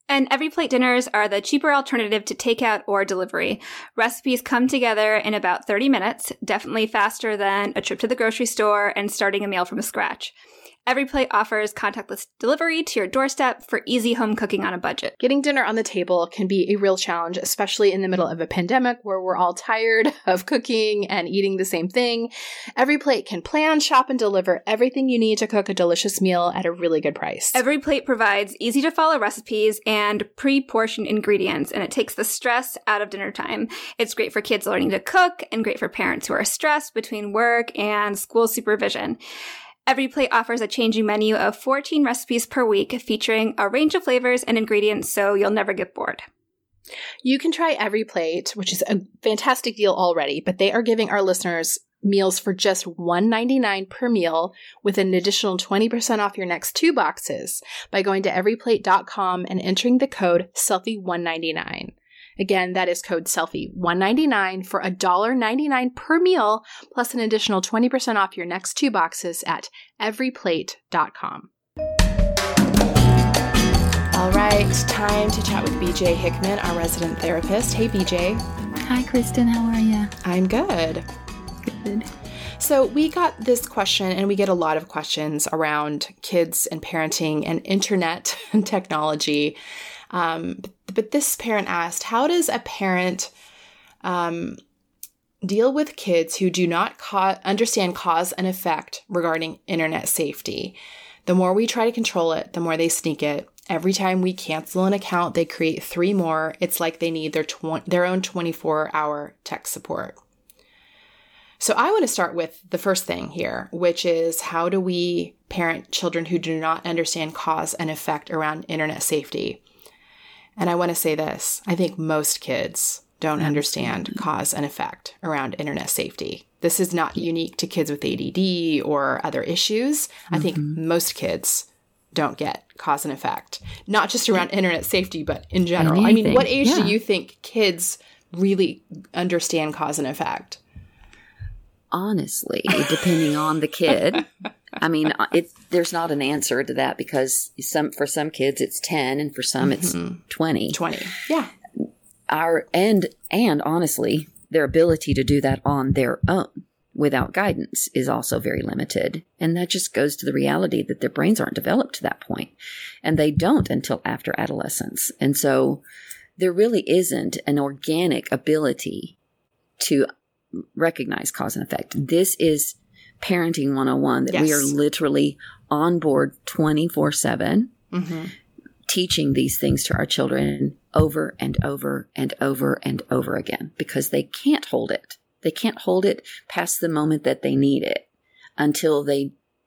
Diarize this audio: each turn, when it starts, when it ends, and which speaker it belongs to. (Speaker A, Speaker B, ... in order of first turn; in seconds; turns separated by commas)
Speaker A: 0.1-10.3, Speaker A: 10.9-15.2, Speaker B: 15.2-27.6, Speaker A: 27.5-39.2, Speaker A: 39.9-46.2, Speaker B: 47.2-71.5, Speaker B: 74.1-78.4, Speaker C: 78.8-80.1, Speaker B: 80.2-81.1, Speaker C: 81.6-82.1, Speaker B: 82.6-89.6, Speaker B: 90.1-93.3, Speaker B: 94.0-94.6, Speaker B: 95.4-110.2, Speaker B: 111.6-119.6, Speaker B: 120.6-140.6, Speaker C: 123.4-124.1, Speaker C: 130.3-130.8, Speaker C: 135.8-137.0, Speaker C: 141.9-150.8, Speaker B: 149.6-150.2, Speaker B: 150.7-151.5, Speaker C: 152.3-162.5, Speaker C: 163.0-165.8, Speaker C: 166.4-169.2, Speaker C: 169.8-177.7, Speaker B: 174.3-174.7, Speaker B: 177.9-178.3, Speaker C: 178.9-188.1, Speaker C: 188.6-189.3